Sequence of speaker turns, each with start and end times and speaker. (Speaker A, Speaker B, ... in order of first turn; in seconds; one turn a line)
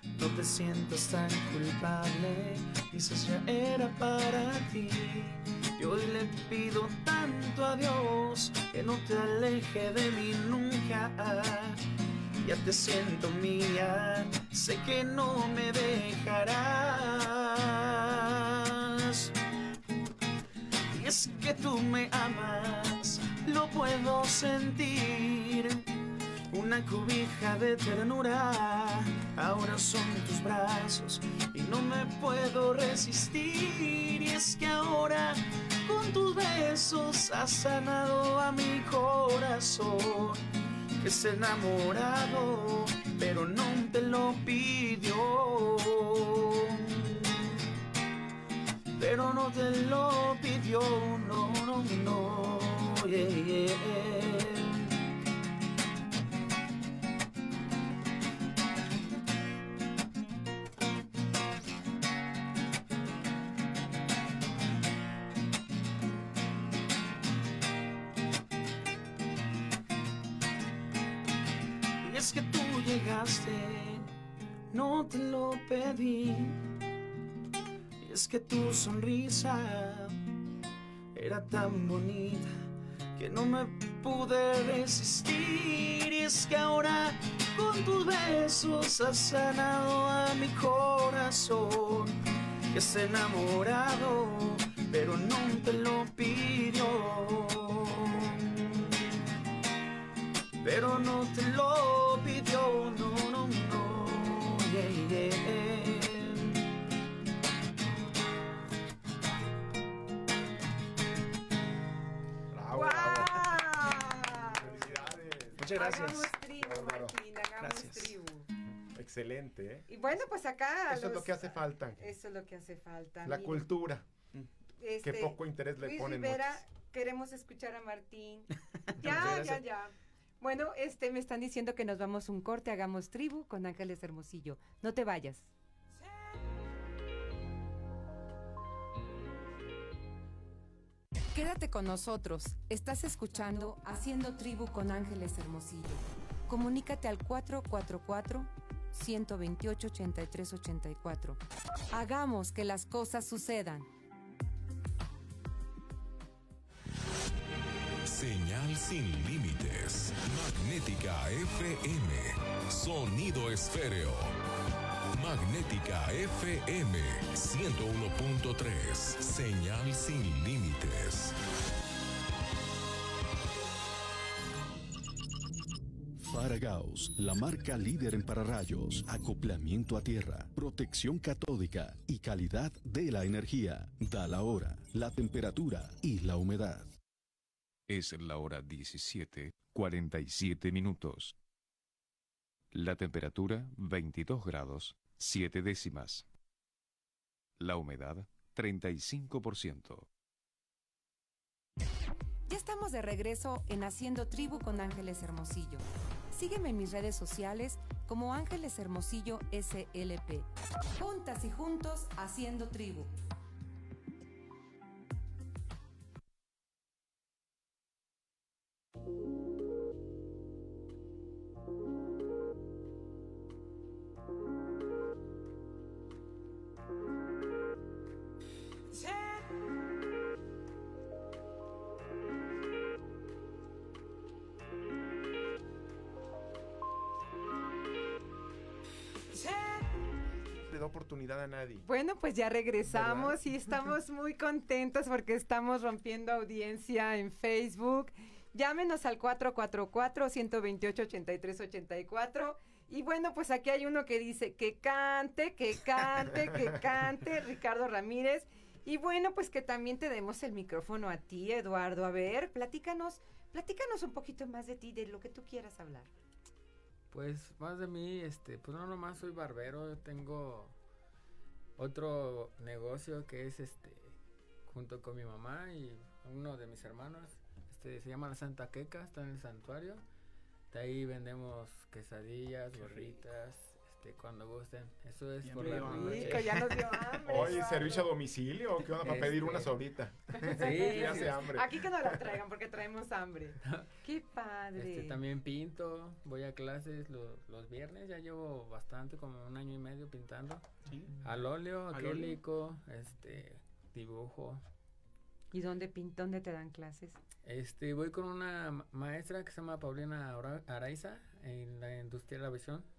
Speaker A: 0.2-11.8
Speaker A: 12.4-19.3
Speaker A: 20.9-25.9
Speaker A: 26.5-40.4
Speaker A: 41.0-47.6
Speaker A: 49.0-55.0
Speaker A: 72.0-74.1
Speaker A: 74.7-76.6
Speaker A: 78.0-80.2
Speaker A: 81.1-82.5
Speaker A: 83.2-92.2
Speaker A: 92.7-99.0
Speaker A: 100.6-106.6
Speaker B: 112.5-113.8
Speaker C: 112.7-114.8
Speaker B: 114.4-116.1
Speaker A: 115.6-116.3
Speaker C: 115.7-118.5
Speaker B: 116.6-117.2
Speaker A: 117.6-118.2
Speaker B: 118.8-119.9
Speaker C: 119.9-123.7
Speaker B: 120.9-122.0
Speaker B: 123.2-124.1
Speaker C: 124.8-135.5
Speaker B: 125.0-126.6
Speaker A: 128.9-129.7
Speaker C: 141.3-151.4
Speaker C: 151.9-153.9
Speaker D: 158.1-164.3
Speaker D: 165.2-171.3
Speaker E: 176.2-186.9
Speaker F: 187.9-191.4
Speaker F: 192.7-196.3
Speaker F: 197.6-200.1
Speaker C: 202.5-213.1
Speaker B: 240.7-241.9
Speaker C: 241.8-266.1
Speaker B: 242.9-243.3
Speaker G: 267.1-270.8
Speaker G: 271.8-274.1
Speaker G: 274.7-280.0
Speaker G: 280.7-286.7
Speaker A: 282.8-283.3
Speaker A: 285.4-287.3
Speaker C: 285.6-288.1
Speaker B: 287.3-292.4
Speaker G: 288.9-289.8
Speaker C: 290.3-295.2
Speaker G: 290.4-291.5
Speaker G: 293.6-293.9
Speaker G: 294.8-300.7
Speaker A: 300.9-301.2
Speaker G: 301.2-304.6
Speaker A: 301.9-302.4
Speaker C: 305.5-307.2
Speaker G: 307.4-312.9